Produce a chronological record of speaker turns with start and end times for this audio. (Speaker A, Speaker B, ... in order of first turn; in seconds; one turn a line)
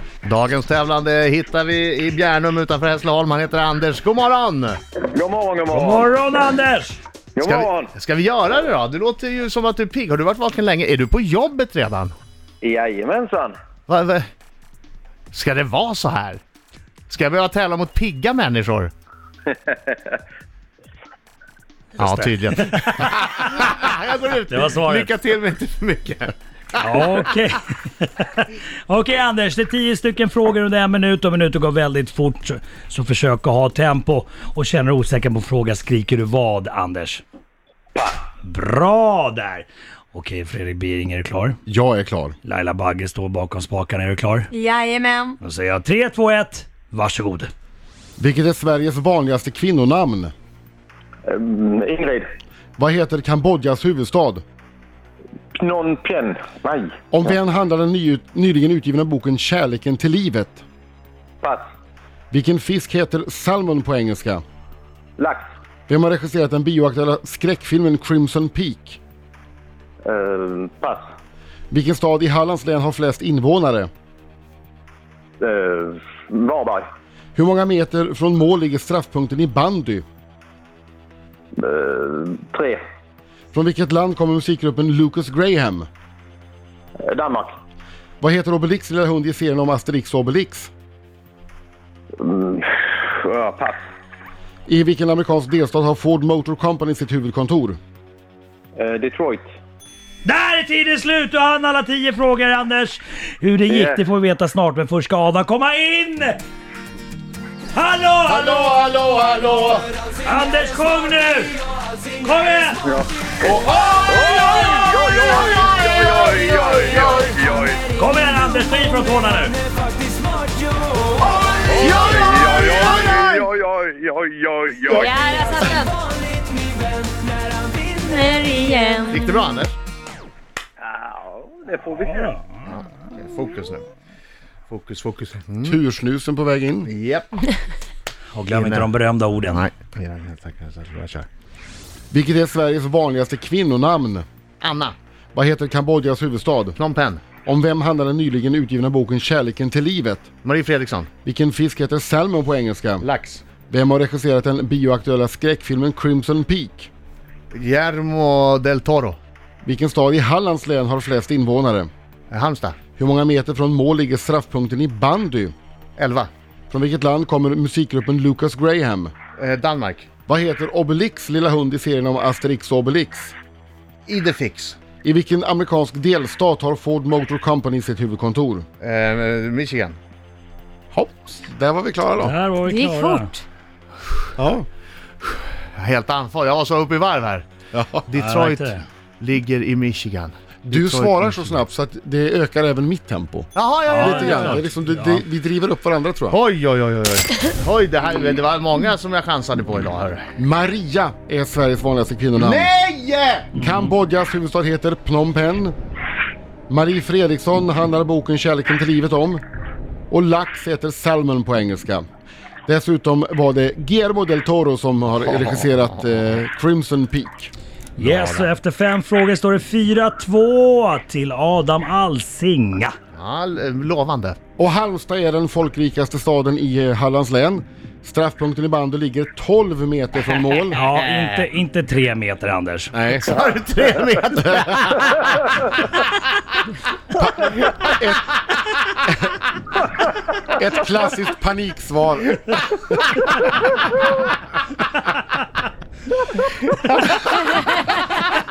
Speaker A: 0.2-4.8
Speaker B: 5.1-6.1
Speaker C: 5.7-7.0
Speaker B: 7.3-7.9
Speaker A: 7.4-12.2
Speaker B: 12.6-13.5
Speaker A: 13.9-14.3
Speaker A: 15.3-16.4
Speaker A: 17.1-18.9
Speaker B: 19.7-20.0
Speaker C: 22.0-22.3
Speaker A: 22.0-26.8
Speaker C: 24.5-25.1
Speaker C: 26.8-37.2
Speaker C: 38.4-41.6
Speaker D: 41.7-42.4
Speaker C: 42.4-44.5
Speaker E: 44.5-45.4
Speaker C: 45.4-47.5
Speaker D: 48.2-50.3
Speaker B: 51.3-52.3
Speaker D: 52.8-54.4
Speaker B: 55.6-56.9
Speaker D: 57.1-60.6
Speaker D: 62.3-64.4
Speaker B: 65.2-65.4
Speaker D: 65.9-69.0
Speaker B: 70.0-71.0
Speaker D: 71.7-73.9
Speaker B: 75.4-76.8
Speaker D: 77.3-80.0
Speaker B: 81.6-82.8
Speaker D: 83.5-85.9
Speaker B: 87.0-87.5
Speaker D: 88.2-90.7
Speaker B: 92.2-93.8
Speaker D: 94.7-97.8
Speaker B: 98.8-99.5
Speaker C: 100.2-106.4
Speaker B: 103.7-104.0
Speaker C: 107.7-108.7
Speaker D: 108.2-109.9
Speaker C: 110.2-111.6
Speaker C: 112.2-112.8
Speaker B: 112.8-117.8
Speaker C: 118.0-119.6
Speaker A: 121.6-123.4
Speaker B: 121.8-125.8
Speaker E: 124.9-126.0
Speaker E: 127.9-129.4
Speaker A: 129.1-129.8
Speaker B: 130.8-132.3
Speaker C: 131.9-132.6
Speaker A: 132.7-133.9
Speaker A: 134.7-135.8
Speaker D: 135.6-136.9
Speaker A: 136.8-137.4
Speaker C: 138.3-139.6
Speaker A: 138.5-138.9
Speaker A: 139.5-141.3
Speaker D: 142.1-144.2
Speaker A: 144.6-144.9
Speaker D: 145.3-146.8
Speaker A: 146.8-147.2
Speaker D: 147.4-150.3
Speaker A: 150.4-151.1
Speaker D: 151.2-153.1
Speaker A: 153.0-153.4
Speaker D: 153.7-156.9
Speaker A: 157.5-159.2
Speaker D: 159.6-161.9
Speaker A: 162.3-162.8
Speaker D: 163.0-165.5
Speaker A: 166.0-166.3
Speaker D: 166.7-169.1
Speaker A: 169.4-170.1
Speaker D: 170.3-173.3
Speaker A: 174.1-174.8
Speaker D: 175.0-178.7
Speaker A: 178.8-180.0
Speaker D: 180.9-182.3
Speaker C: 182.2-183.3
Speaker E: 182.6-183.4
Speaker D: 184.4-184.6
Speaker A: 185.7-187.4
Speaker D: 187.7-188.1
Speaker A: 188.1-191.6
Speaker C: 188.1-188.8
Speaker D: 190.6-196.4
Speaker A: 193.5-194.6
Speaker C: 193.9-195.2
Speaker A: 196.3-200.3
Speaker D: 200.4-202.7
Speaker A: 202.4-203.5
Speaker C: 203.5-203.9
Speaker D: 203.5-205.8
Speaker D: 206.7-209.4
Speaker D: 210.1-212.0
Speaker D: 212.7-217.5
Speaker A: 215.3-216.2
Speaker C: 218.0-222.9
Speaker A: 218.0-218.5
Speaker A: 223.1-224.4
Speaker D: 224.6-230.8
Speaker A: 230.2-231.5
Speaker C: 230.8-232.9
Speaker D: 232.9-233.7
Speaker A: 233.2-236.1
Speaker D: 234.6-234.9
Speaker D: 237.1-239.4
Speaker D: 240.4-243.3
Speaker A: 246.7-247.3
Speaker E: 247.3-248.2